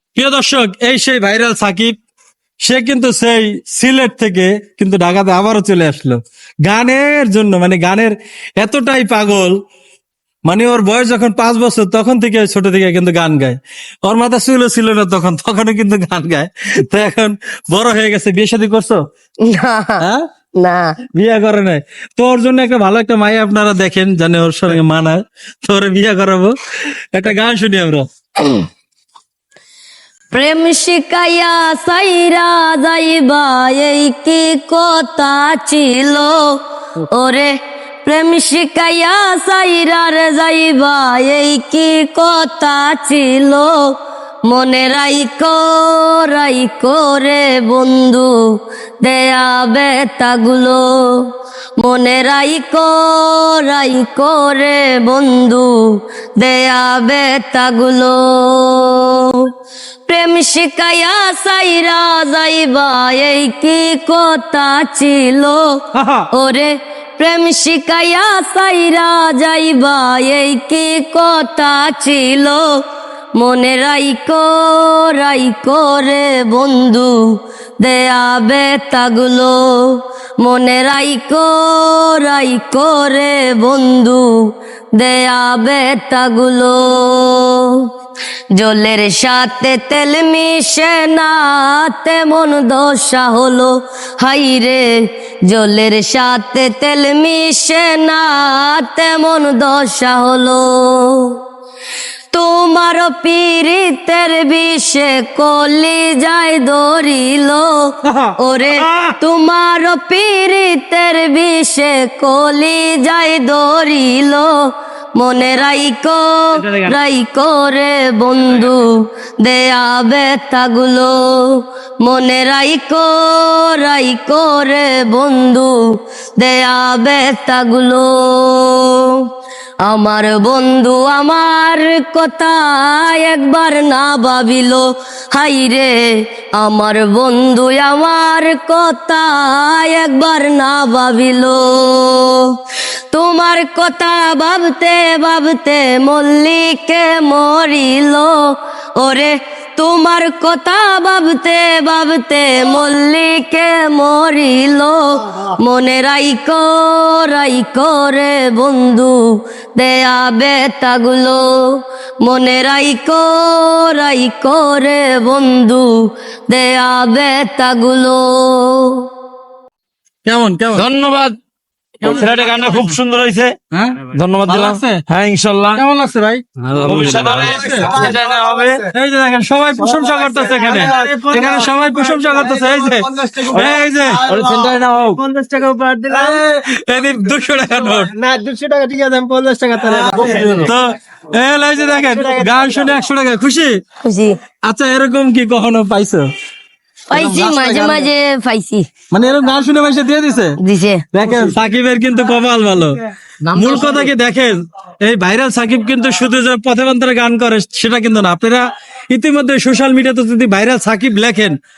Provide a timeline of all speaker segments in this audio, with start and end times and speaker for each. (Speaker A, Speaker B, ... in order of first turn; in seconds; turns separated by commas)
Speaker A: 0.1-1.9, Speaker A: 2.6-9.6, Speaker A: 10.4-19.0, Speaker B: 19.4-20.0, Speaker A: 20.0-20.2, Speaker B: 20.6-20.9, Speaker A: 21.1-26.6, Speaker A: 27.1-28.1, Speaker B: 30.3-36.6, Speaker B: 37.1-59.5, Speaker B: 60.1-65.8, Speaker A: 65.9-66.3, Speaker B: 66.3-72.8, Speaker B: 73.4-87.9, Speaker B: 88.5-101.4, Speaker B: 102.3-129.3, Speaker A: 108.0-109.2, Speaker A: 116.6-116.9, Speaker B: 129.8-142.6, Speaker B: 143.1-169.1, Speaker A: 170.2-170.9, Speaker C: 170.7-171.4, Speaker C: 172.0-173.6, Speaker A: 173.7-175.0, Speaker C: 174.1-175.8, Speaker A: 175.7-178.2, Speaker C: 176.6-178.8, Speaker D: 177.1-178.9, Speaker A: 178.9-184.2, Speaker D: 179.8-186.4, Speaker C: 183.5-185.2, Speaker A: 186.1-188.1, Speaker D: 187.7-190.7, Speaker A: 189.8-193.8, Speaker D: 191.9-192.9, Speaker B: 194.0-194.3, Speaker A: 194.6-196.2, Speaker B: 197.1-198.8, Speaker A: 197.1-198.1, Speaker A: 199.1-200.6, Speaker B: 200.6-201.0, Speaker A: 201.1-203.0, Speaker A: 203.5-211.5